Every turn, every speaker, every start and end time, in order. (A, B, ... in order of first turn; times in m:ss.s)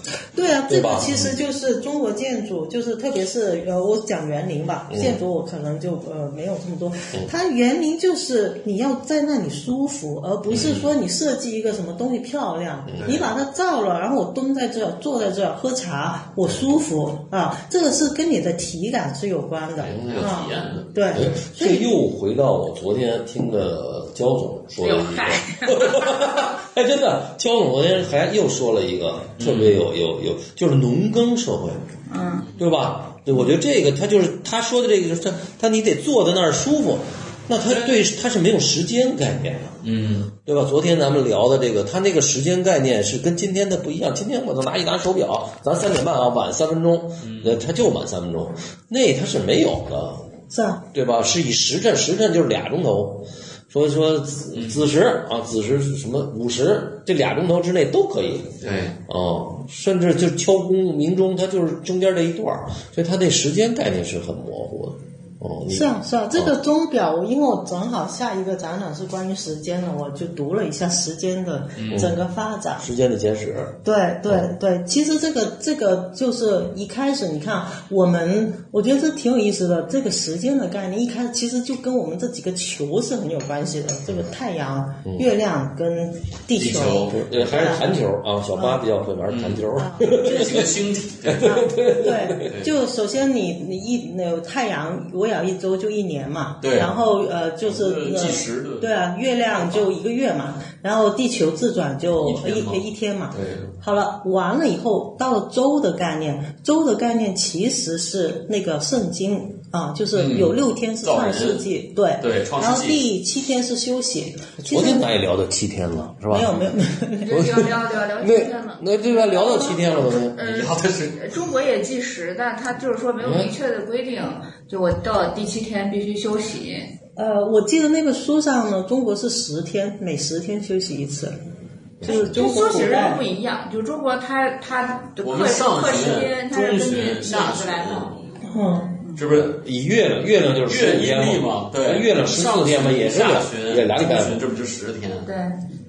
0:00.4-0:21.9 A
0:00.7-0:01.3 B
0:04.9-0:05.2 B
0:10.5-0:10.8 B
0:10.5-0:10.8 C
0:12.9-0:13.2 B
0:19.8-0:21.2 C
0:19.9-0:20.3 B
0:21.1-0:31.8 B
0:24.8-0:26.3 D
0:29.4-0:29.8 C
0:32.1-0:32.5 D
0:32.6-0:39.8 B
0:39.8-0:40.3 C
0:40.4-0:50.2 B
0:47.2-0:47.6 C
0:50.5-0:50.8 A
0:50.9-0:58.5 B
0:54.5-0:54.9 C
0:58.6-0:59.0 C
0:59.1-1:06.6 B
1:05.7-1:12.9 A
1:11.8-1:12.1 C
1:11.9-1:12.2 B
1:12.8-1:14.5 B
1:13.8-1:27.9 A
1:25.0-1:25.3 B
1:26.6-1:27.2 C
1:27.1-1:30.7 B
1:28.5-1:28.8 A
1:29.3-1:31.8 C
1:29.7-1:30.7 A
1:31.3-1:32.5 B
1:31.9-1:55.1 A
1:32.4-1:32.7 C
1:36.6-1:36.9 C
1:37.6-1:38.9 C
1:39.6-1:39.9 C
1:42.2-1:43.7 C
1:50.1-1:51.7 C
1:52.2-1:53.1 C
1:54.6-1:56.6 B
1:56.3-1:57.6 A
1:57.2-2:06.9 D
1:57.3-2:00.4 B
2:00.4-2:01.4 C
2:03.2-2:03.5 B
2:07.2-2:11.4 A
2:12.0-2:13.2 A
2:12.0-2:18.2 D
2:15.2-2:18.2 C
2:18.4-2:19.0 A
2:19.1-2:19.6 C
2:19.3-2:24.4 B
2:20.6-2:25.3 C
2:25.2-2:25.6 D